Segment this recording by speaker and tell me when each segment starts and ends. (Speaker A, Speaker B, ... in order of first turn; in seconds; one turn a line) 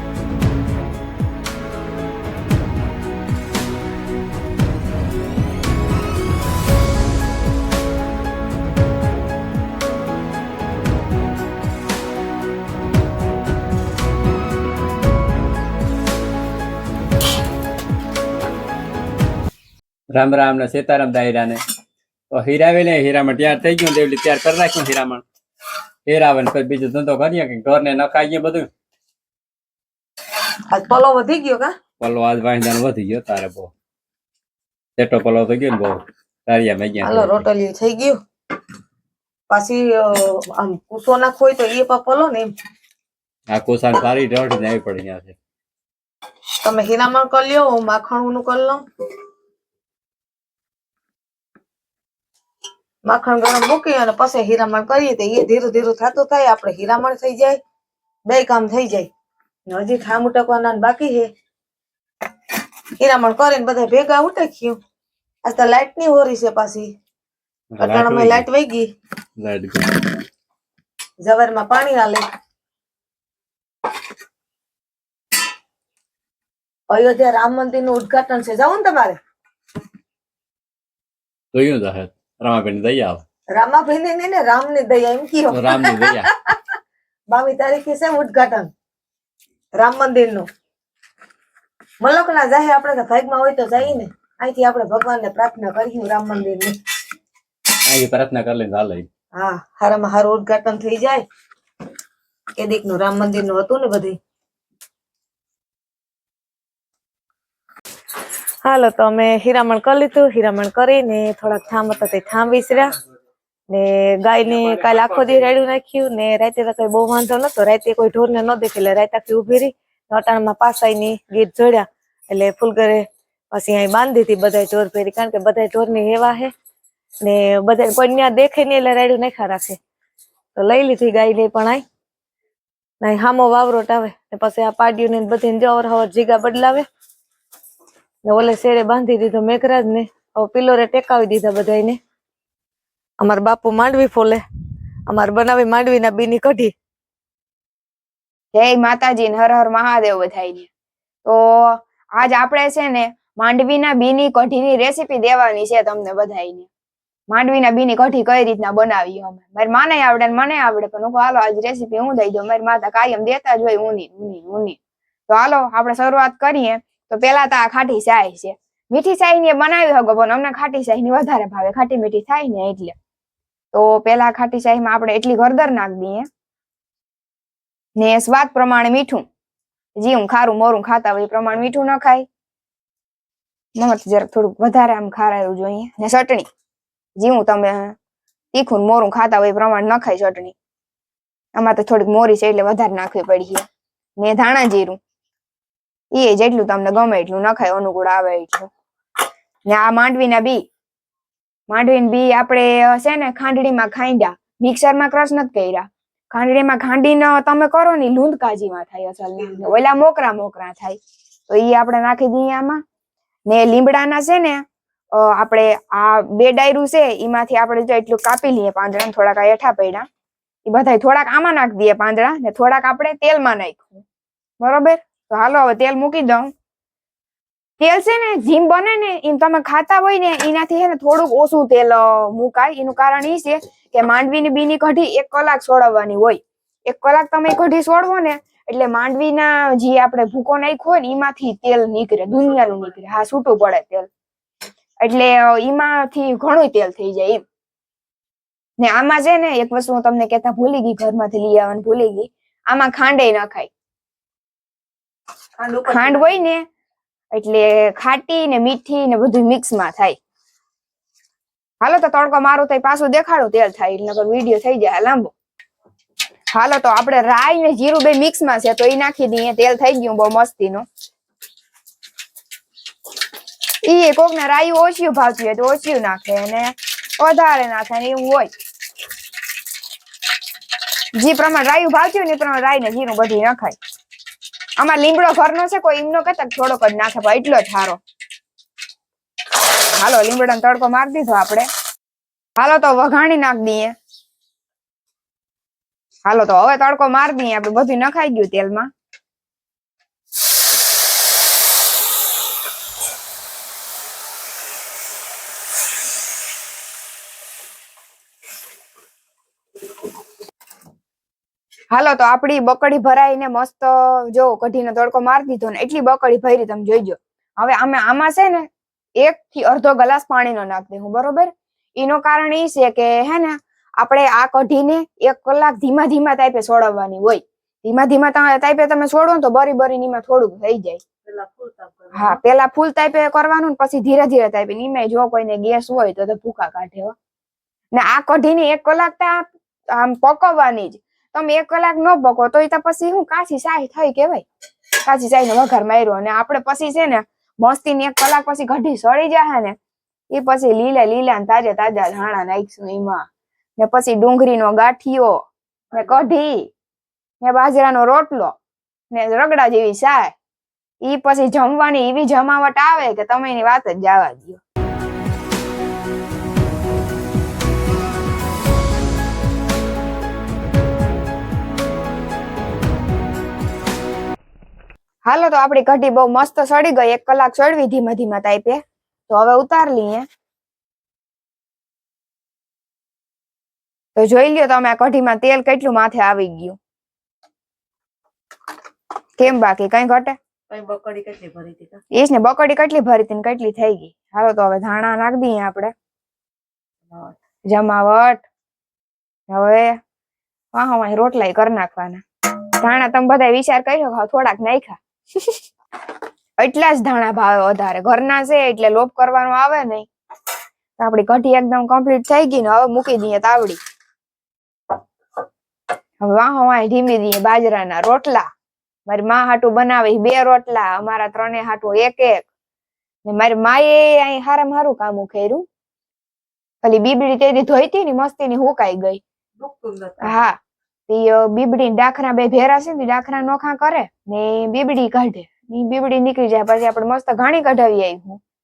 Speaker A: 20.1-21.6
Speaker A: 22.3-25.2
Speaker A: 26.1-28.7
Speaker B: 30.7-31.7
Speaker A: 32.0-33.7
Speaker A: 35.0-37.5
Speaker B: 37.0-38.2
Speaker B: 39.5-42.5
Speaker A: 43.5-45.4
Speaker B: 46.6-48.8
Speaker B: 53.1-57.6
Speaker B: 58.3-59.1
Speaker B: 59.7-61.3
Speaker B: 63.0-64.8
Speaker B: 65.5-66.9
Speaker A: 67.7-68.5
Speaker B: 67.8-68.9
Speaker A: 69.4-70.2
Speaker B: 71.2-72.2
Speaker B: 76.9-79.2
Speaker A: 81.5-83.2
Speaker B: 83.5-86.6
Speaker A: 85.5-86.3
Speaker B: 87.3-88.7
Speaker B: 89.8-90.5
Speaker B: 92.0-96.8
Speaker A: 97.9-99.1
Speaker B: 99.3-101.2
Speaker B: 102.6-104.2
Speaker B: 108.6-112.9
Speaker B: 113.7-126.5
Speaker B: 127.2-129.8
Speaker B: 130.5-131.8
Speaker B: 133.0-136.8
Speaker B: 138.2-142.0
Speaker B: 143.2-144.4
Speaker B: 145.1-146.7
Speaker C: 148.5-150.7
Speaker C: 151.2-156.7
Speaker C: 157.3-172.9
Speaker C: 173.7-176.3
Speaker C: 178.0-179.2
Speaker C: 180.0-182.2
Speaker C: 183.8-186.5
Speaker C: 187.2-187.9
Speaker C: 188.5-190.6
Speaker C: 191.5-193.6
Speaker C: 194.2-195.0
Speaker C: 196.1-198.7
Speaker C: 199.7-200.6
Speaker C: 201.7-212.8
Speaker C: 213.5-220.1
Speaker C: 220.7-224.0
Speaker C: 224.6-226.5
Speaker C: 227.8-244.1
Speaker C: 245.0-247.4
Speaker C: 248.8-253.7
Speaker B: 255.6-256.4
Speaker C: 255.9-256.6
Speaker C: 257.3-260.2
Speaker C: 261.8-265.3
Speaker C: 266.5-270.8
Speaker C: 273.8-278.5
Speaker C: 281.1-283.8
Speaker C: 284.8-288.0
Speaker C: 289.9-291.7
Speaker C: 292.6-293.9
Speaker C: 296.2-298.9
Speaker C: 311.9-331.0
Speaker B: 331.3-332.4
Speaker C: 332.1-337.1
Speaker C: 337.9-344.4
Speaker C: 345.1-349.8
Speaker C: 350.3-353.2
Speaker C: 353.8-356.7
Speaker C: 357.4-358.6
Speaker C: 359.1-360.3
Speaker C: 361.0-364.6
Speaker C: 375.2-380.2
Speaker C: 384.1-386.8
Speaker C: 389.4-390.4
Speaker B: 390.7-392.0
Speaker C: 392.1-395.9
Speaker C: 397.7-398.4
Speaker C: 399.5-400.0
Speaker C: 400.7-402.2
Speaker C: 402.8-405.6
Speaker C: 406.6-410.1
Speaker C: 411.0-413.8
Speaker C: 416.2-418.5
Speaker C: 419.1-422.4
Speaker C: 423.2-425.6
Speaker C: 426.8-429.2
Speaker B: 429.6-430.3
Speaker C: 430.2-430.6
Speaker C: 431.1-438.4